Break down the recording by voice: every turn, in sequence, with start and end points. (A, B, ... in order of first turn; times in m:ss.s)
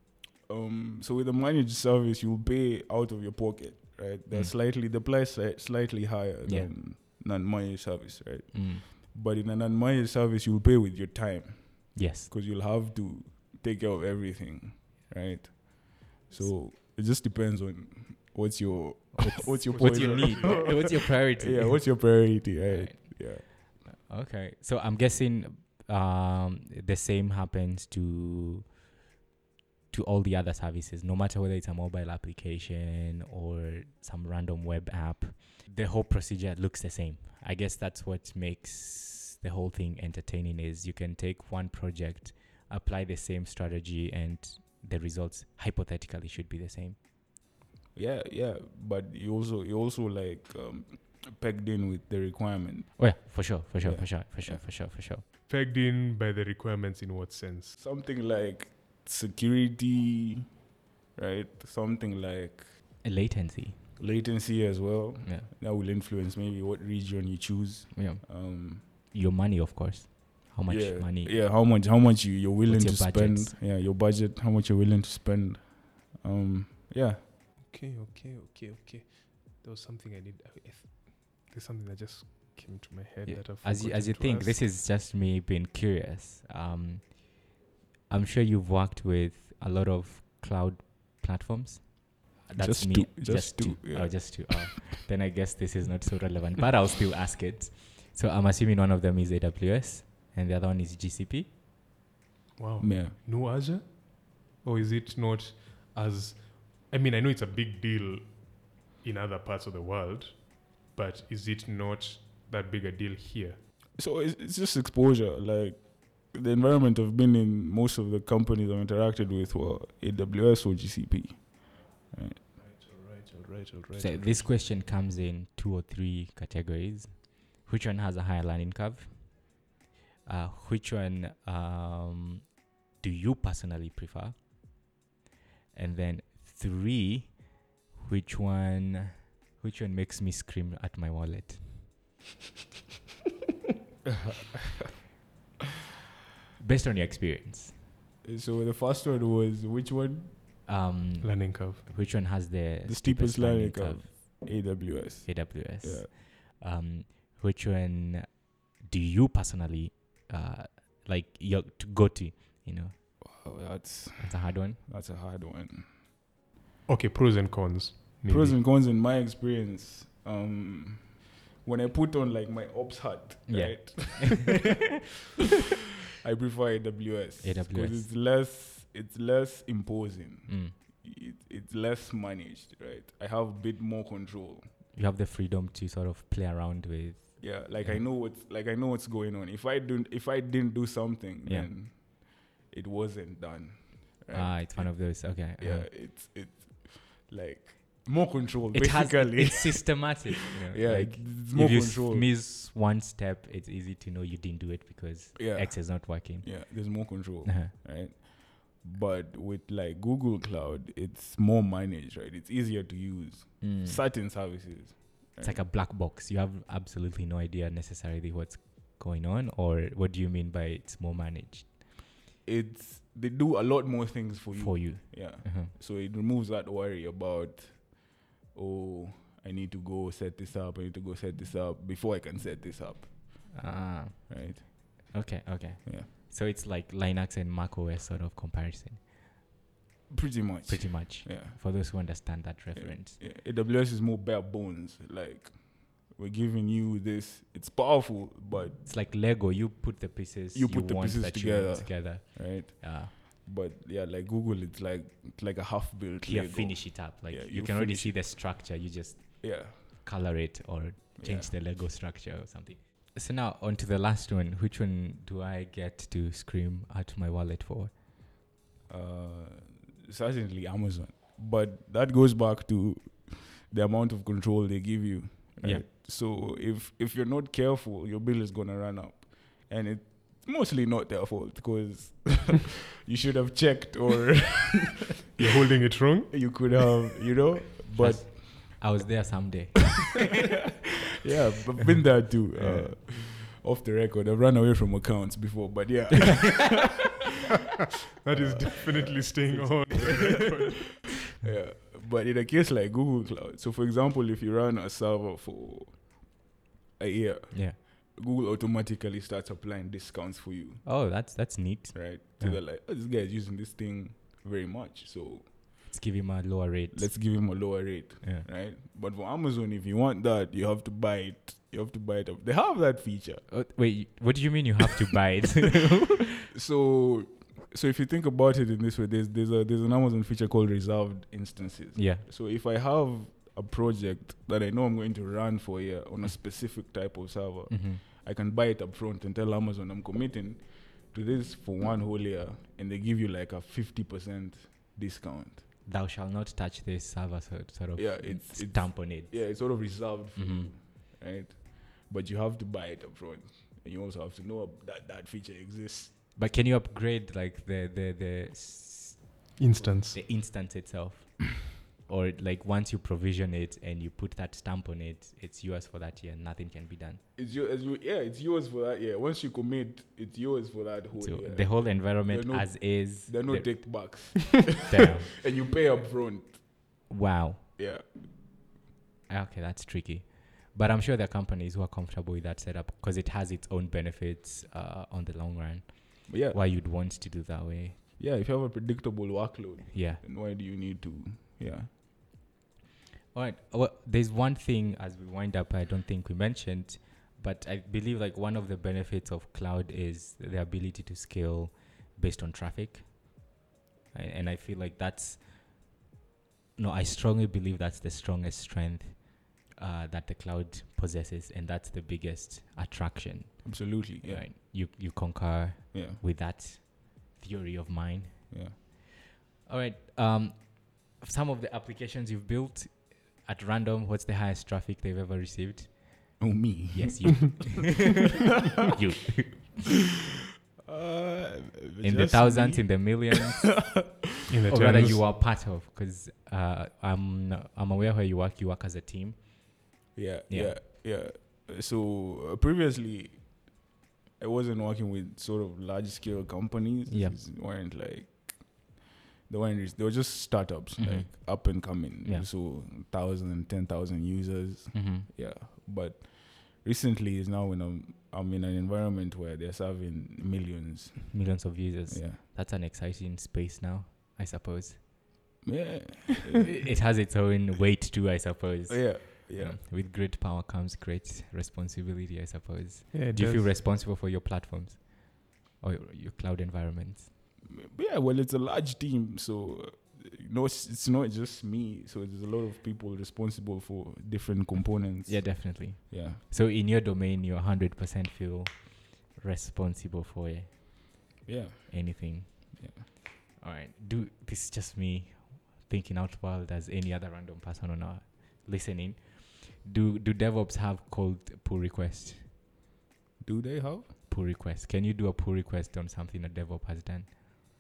0:00.5-0:23.4 A
0:06.5-0:06.7 B
0:08.5-0:08.8 B
0:12.0-0:12.3 B
0:19.2-0:28.8 B
0:19.7-0:20.9 C
0:29.9-0:47.0 B
0:48.0-0:54.6 A
0:53.0-0:55.2 B
0:55.5-0:57.8 C
0:57.8-1:00.5 A
1:01.2-1:02.7 A
1:03.0-1:03.8 B
1:04.0-1:08.8 A
1:07.9-1:11.4 B
1:10.7-1:17.2 A
1:12.7-1:13.6 B
1:17.7-1:24.6 C
1:23.3-1:27.4 B
1:28.1-1:41.5 B
1:32.6-1:34.8 A
1:42.6-1:53.6 C
1:42.8-1:43.2 A
1:54.0-2:02.4 A
2:02.6-2:04.5 C
2:04.0-2:09.5 B
2:10.3-2:14.4 B
2:15.7-2:21.9 B
2:26.6-2:27.8 B
2:28.2-2:30.4 A
2:30.7-2:34.4 B
2:31.2-2:31.8 C
2:32.8-2:36.1 A
2:35.3-2:43.4 B
2:43.2-2:45.9 A
2:44.2-2:44.8 B
2:46.9-2:48.6 C
2:48.3-2:54.7 A
2:53.5-2:54.8 B
2:56.2-3:04.7 A
2:57.4-2:58.1 B
3:00.5-3:00.8 B
3:04.9-3:08.0 B
3:07.4-3:22.3 A
3:14.3-3:15.9 B
3:18.7-3:27.7 B
3:25.4-3:35.6 A
3:33.6-3:34.0 B
3:35.4-3:41.8 B
3:42.4-3:53.6 A
3:44.5-3:45.7 B
3:53.6-3:59.1 B
3:54.3-3:55.1 A
4:00.1-4:01.6 A
4:00.7-4:03.2 B
4:02.8-4:08.8 A
4:08.8-4:13.1 B
4:10.5-4:18.4 A
4:16.2-4:27.9 B
4:19.4-4:19.8 A
4:21.2-4:21.5 A
4:28.9-4:45.0 A
4:45.4-4:46.7 C
4:46.3-4:48.4 A
4:48.0-4:50.4 B
4:51.2-4:57.0 A
4:52.5-4:53.0 B
4:58.2-5:01.0 C
4:58.3-5:00.8 A
5:00.0-5:00.3 B
5:01.4-5:06.3 A
5:07.0-5:10.9 A
5:07.5-5:07.8 B
5:10.8-5:12.6 B
5:11.9-5:15.5 A
5:15.9-5:17.7 B
5:16.9-5:23.4 A
5:18.2-5:18.5 B
5:23.5-5:26.5 B
5:26.5-5:45.6 A
5:32.0-5:32.2 B
5:37.7-5:38.0 B
5:45.8-5:50.7 B
5:48.0-5:56.2 A
5:56.4-6:07.2 B
5:59.6-6:00.2 C
6:07.4-6:16.7 A
6:11.2-6:14.4 B
6:14.9-6:15.3 B
6:17.1-6:17.6 B
6:17.8-6:18.0 A
6:19.3-6:28.0 B
6:26.3-6:26.6 A
6:28.2-6:31.9 A
6:29.9-6:30.2 B
6:33.3-6:43.4 B
6:44.1-6:45.6 B
6:46.8-6:59.0 B
6:53.6-6:54.5 A
6:55.9-6:56.2 A
6:58.5-6:58.8 A
6:59.6-7:06.4 B
7:06.4-7:07.4 A
7:06.9-7:10.0 B
7:10.8-7:14.5 A
7:12.0-7:13.9 B
7:14.5-7:15.2 C
7:14.7-7:19.5 B
7:20.2-7:23.8 A
7:20.5-7:20.8 B
7:24.4-7:42.4 A
7:27.1-7:27.4 B
7:31.0-7:32.5 B
7:34.9-7:35.3 B
7:41.3-7:45.0 B
7:45.6-7:46.7 A
7:46.6-7:57.3 B
7:48.9-7:49.8 A
7:53.1-7:53.7 C
7:57.7-8:06.4 A
8:05.3-8:11.3 B
8:11.5-8:13.0 A
8:11.9-8:22.5 B
8:23.4-8:24.1 A
8:24.3-8:27.3 B